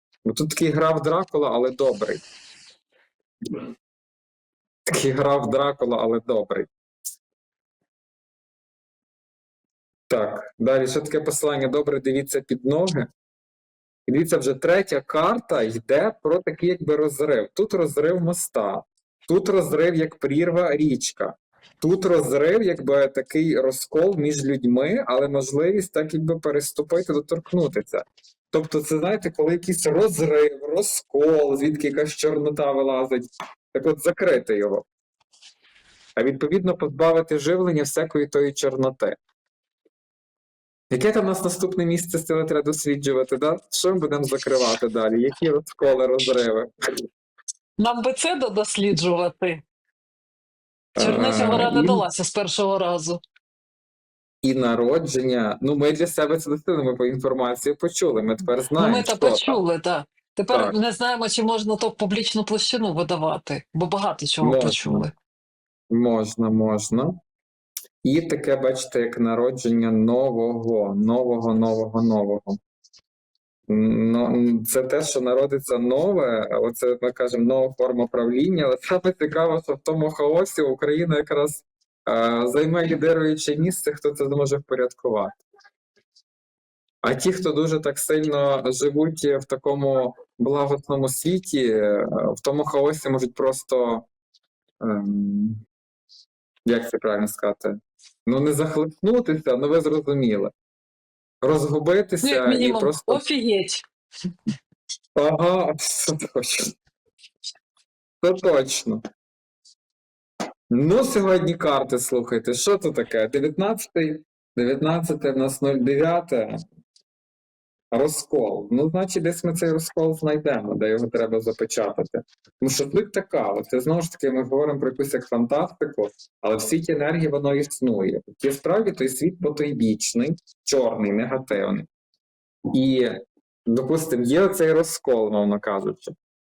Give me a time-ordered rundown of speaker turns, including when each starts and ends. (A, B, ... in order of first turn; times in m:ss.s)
0:00.2-0:02.2 A
0:04.8-0:06.7 A
0:10.1-0:13.1 A
0:14.1-0:34.9 A
0:36.2-0:39.2 A
0:40.9-0:46.7 A
0:47.8-0:49.6 B
0:51.0-0:52.0 A
0:51.0-0:53.2 B
0:54.4-0:59.6 A
0:58.7-1:05.1 B
1:04.4-1:05.1 A
1:05.9-1:07.2 A
1:08.0-1:12.6 A
1:13.7-1:25.4 A
1:27.0-1:34.1 A
1:34.8-1:35.6 A
1:36.6-1:37.7 A
1:38.2-1:40.5 A
1:41.4-1:43.2 A
1:42.2-1:43.8 B
1:45.1-1:46.7 A
1:48.2-1:49.0 A
1:50.7-1:56.6 A
1:57.9-2:11.9 A
2:12.7-2:16.1 A